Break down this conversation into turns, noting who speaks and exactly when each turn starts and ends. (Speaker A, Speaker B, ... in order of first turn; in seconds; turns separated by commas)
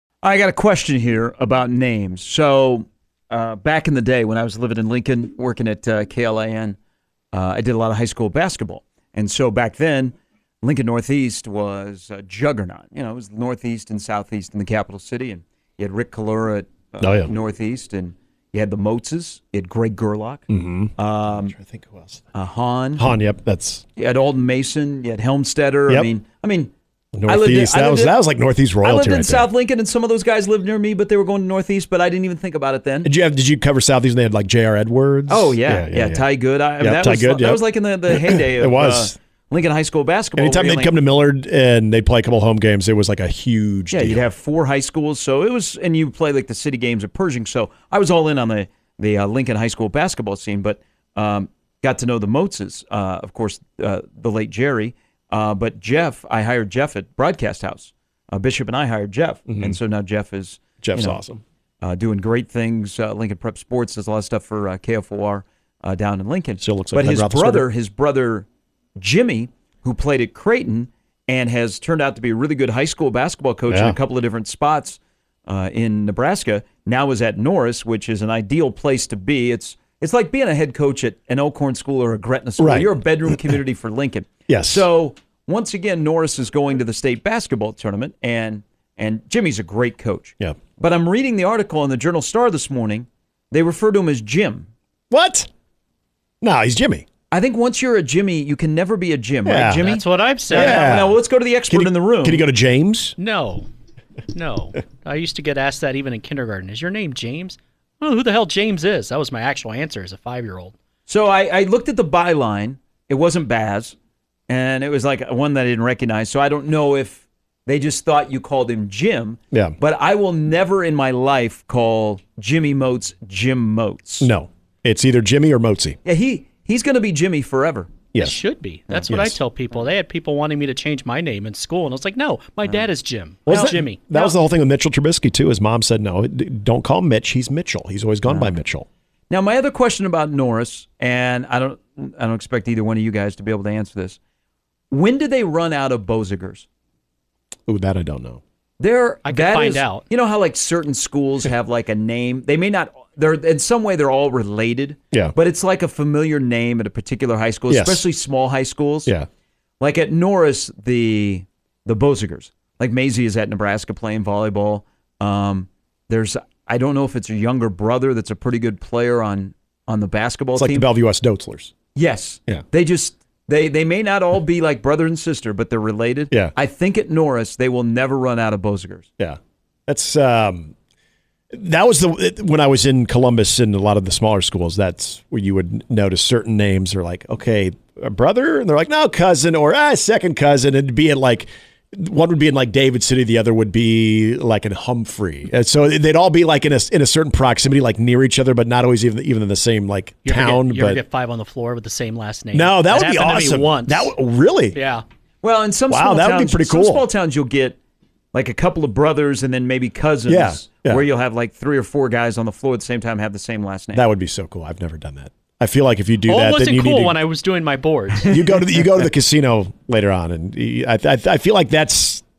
Speaker A: 0.2-6.8, Speaker A: 7.3-20.4, Speaker B: 17.0-17.3, Speaker B: 20.5-22.2, Speaker A: 21.0-21.5, Speaker A: 22.3-23.0, Speaker B: 22.9-23.8, Speaker A: 24.0-26.7, Speaker B: 27.1-29.5, Speaker A: 27.2-28.1, Speaker A: 28.8-33.1, Speaker B: 33.0-36.3, Speaker A: 35.3-41.0, Speaker B: 36.8-39.1, Speaker B: 40.4-44.2, Speaker A: 43.9-61.2, Speaker B: 59.5-59.8, Speaker B: 60.8-61.4, Speaker A: 61.8-94.7, Speaker B: 66.6-67.7, Speaker B: 73.7-74.0, Speaker B: 82.6-83.5, Speaker B: 84.5-84.8, Speaker B: 95.1-95.5, Speaker B: 96.4-97.0, Speaker A: 97.3-102.5, Speaker B: 99.4-99.9, Speaker C: 99.8-101.0, Speaker B: 100.5-101.2, Speaker B: 101.7-103.2, Speaker C: 103.2-103.7, Speaker C: 104.3-110.7, Speaker A: 111.1-114.0, Speaker A: 114.5-124.3, Speaker B: 124.2-126.0, Speaker A: 126.0-128.0, Speaker B: 128.1-128.4, Speaker C: 128.2-134.3, Speaker B: 129.1-129.4, Speaker B: 133.4-138.9, Speaker A: 139.3-144.2, Speaker A: 144.9-146.7, Speaker B: 147.7-148.4, Speaker A: 148.8-159.1, Speaker C: 149.2-150.1, Speaker B: 157.7-158.1, Speaker A: 159.8-170.9, Speaker B: 170.6-171.7, Speaker A: 171.9-179.1, Speaker B: 179.2-180.7, Speaker B: 181.5-201.0, Speaker C: 200.2-204.1, Speaker B: 202.5-204.8, Speaker C: 204.7-205.0, Speaker A: 205.4-207.8, Speaker B: 205.9-207.0, Speaker A: 208.3-214.0, Speaker B: 210.3-211.0, Speaker B: 213.9-217.2, Speaker C: 216.2-218.4, Speaker B: 218.2-222.2